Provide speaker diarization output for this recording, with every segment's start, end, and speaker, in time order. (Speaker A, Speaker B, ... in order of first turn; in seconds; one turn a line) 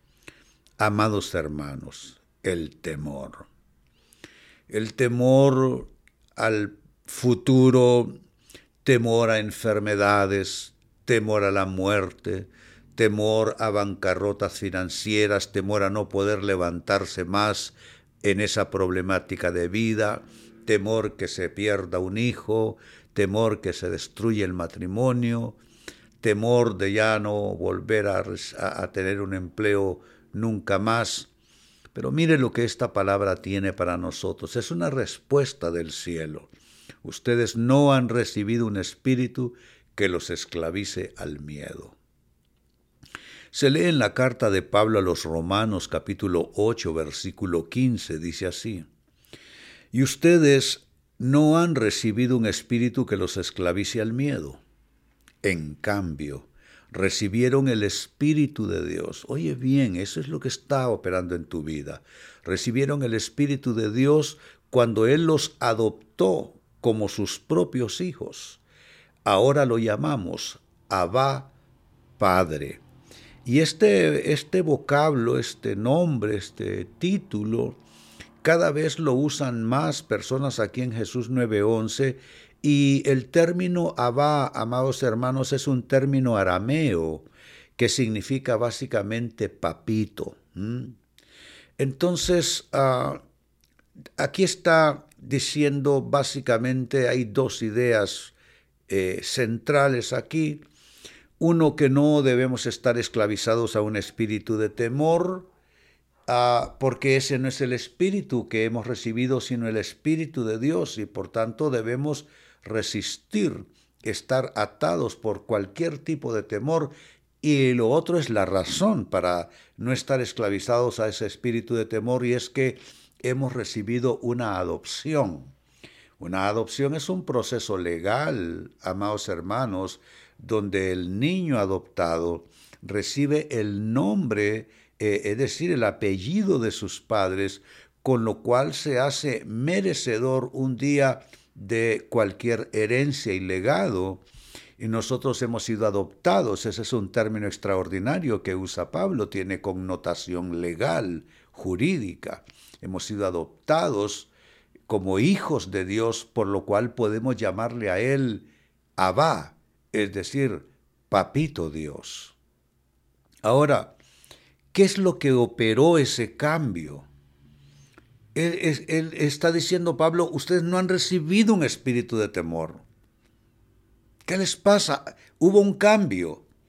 Speaker A: 0.8-3.5
Speaker A: 4.7-8.1
Speaker A: 8.8-25.6
Speaker A: 26.2-31.3
Speaker A: 31.9-36.5
Speaker A: 37.0-42.0
Speaker A: 43.5-48.9
Speaker A: 49.9-54.6
Speaker A: 55.4-68.6
Speaker A: 69.2-71.5
Speaker A: 72.2-72.8
Speaker A: 73.4-77.8
Speaker A: 78.4-91.0
Speaker A: 91.8-93.2
Speaker A: 94.2-98.3
Speaker A: 98.9-100.6
Speaker A: 101.4-105.5
Speaker A: 106.3-125.5
Speaker A: 126.2-144.2
Speaker A: 144.8-154.3
Speaker A: 154.9-162.3
Speaker A: 163.4-163.9
Speaker A: 164.7-167.1
Speaker A: 168.3-172.8
Speaker A: 174.2-176.4